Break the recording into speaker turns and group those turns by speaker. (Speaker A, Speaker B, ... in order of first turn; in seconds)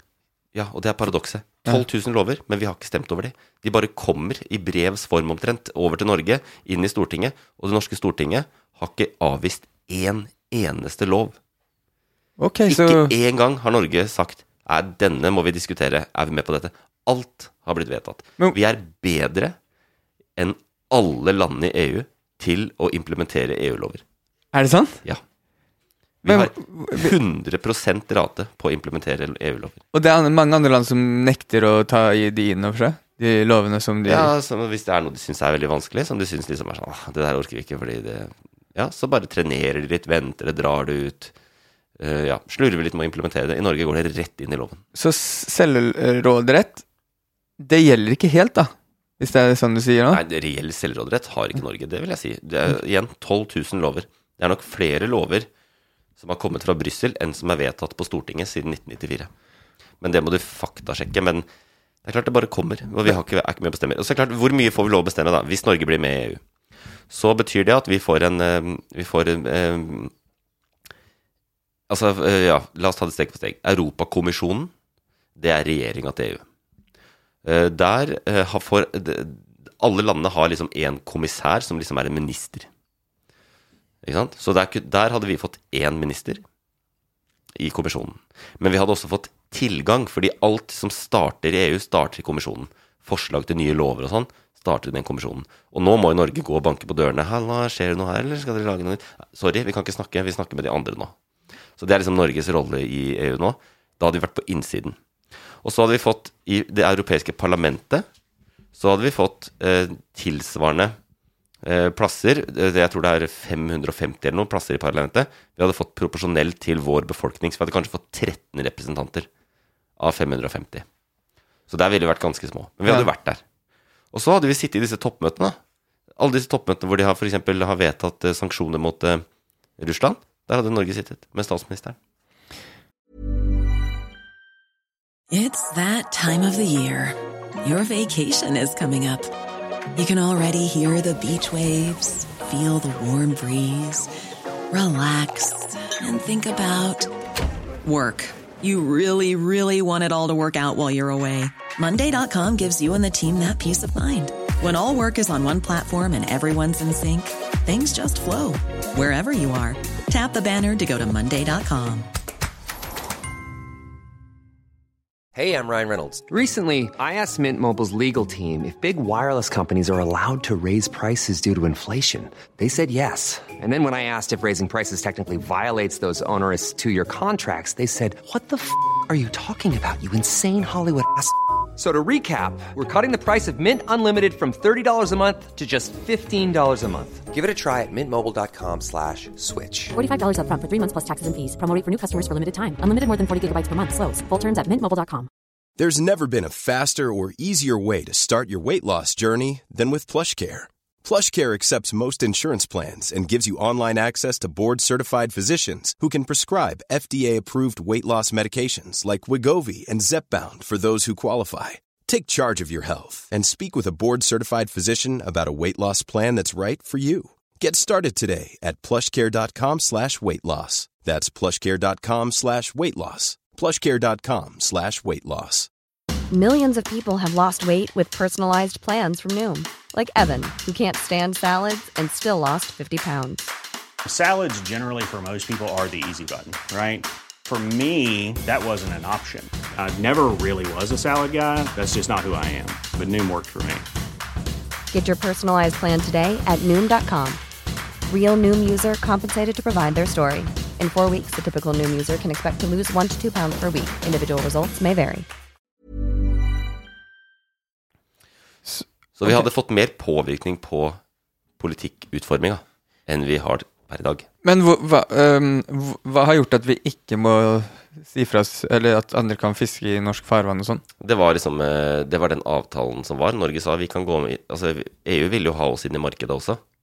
Speaker A: 0.5-11.4, 12.7-19.6, 20.4-24.0, 26.2-29.8, 34.1-41.3, 42.0-44.8, 50.1-55.5, 56.2-59.3, 60.0-61.5, 62.0-66.4, 67.1-70.1, 71.9-74.7, 75.4-76.4, 77.4-82.7, 84.0-86.4, 87.6-101.1, 101.8-105.0, 105.6-108.1, 108.8-110.9, 111.6-119.3, 120.0-120.9, 121.7-123.4, 124.1-125.6, 126.2-129.2, 129.8-131.9, 259.2-261.0, 261.6-264.3, 271.0-276.6
Speaker B: 12.4-13.1, 24.5-25.0, 26.3-27.1, 29.9-34.3, 44.9-46.8, 47.6-50.2, 258.6-259.4, 264.4-270.8
Speaker C: 135.3-139.3, 139.9-144.1, 144.7-147.1, 147.8-162.1
Speaker D: 165.3-189.9
Speaker E: 189.9-195.3
Speaker F: 195.8-225.7
Speaker G: 226.3-233.5, 244.9-247.4, 248.1-255.3
Speaker H: 234.1-243.9